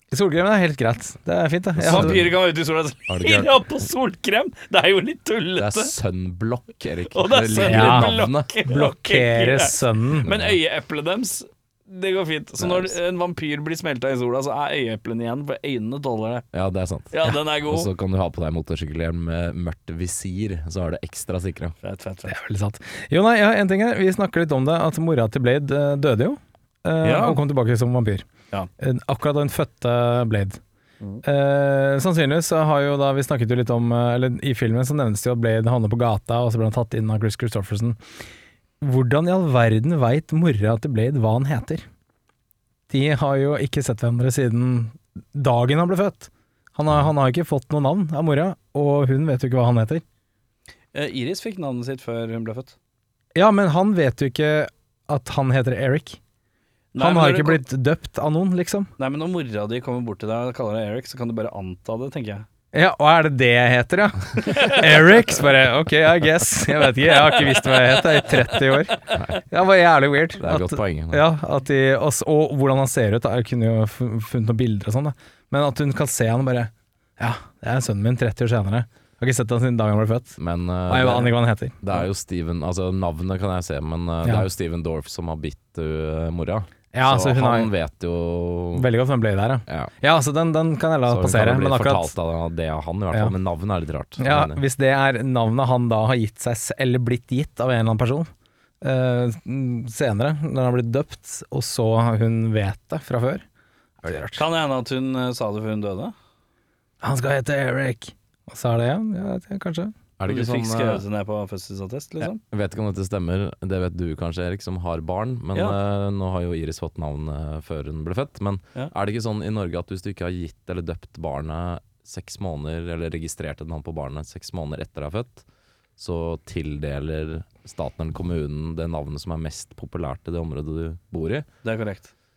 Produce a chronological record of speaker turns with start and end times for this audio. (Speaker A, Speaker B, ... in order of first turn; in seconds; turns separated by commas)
Speaker A: 0.1-2.2, Speaker B: 1.8-2.3, Speaker C: 1.9-5.9, Speaker B: 3.1-3.6, Speaker B: 5.6-8.5, Speaker C: 7.1-16.4, Speaker A: 7.6-10.3, Speaker B: 10.2-10.6, Speaker B: 12.6-12.9, Speaker B: 16.5-21.7, Speaker C: 17.1-17.9, Speaker C: 21.8-22.4, Speaker A: 22.3-28.3, Speaker C: 27.0-27.4, Speaker A: 28.8-30.6, Speaker A: 31.2-38.0, Speaker A: 38.8-41.8, Speaker A: 42.9-50.0, Speaker C: 50.9-52.7, Speaker A: 53.3-56.2, Speaker C: 56.9-57.6, Speaker A: 57.0-58.9, Speaker C: 59.0-62.5, Speaker A: 62.7-80.3, Speaker C: 64.5-64.8, Speaker C: 67.1-68.4, Speaker B: 69.1-69.4, Speaker B: 70.4-71.2, Speaker B: 80.4-88.9, Speaker A: 80.9-82.0, Speaker A: 86.9-87.7, Speaker A: 88.8-92.1, Speaker B: 89.7-89.9, Speaker B: 91.1-94.6, Speaker A: 94.2-98.3, Speaker A: 98.8-103.4, Speaker A: 104.0-104.4, Speaker C: 104.4-106.1, Speaker A: 107.0-109.9, Speaker B: 110.2-111.0, Speaker C: 110.3-112.4, Speaker B: 112.5-125.4, Speaker B: 126.0-131.4, Speaker C: 131.6-132.1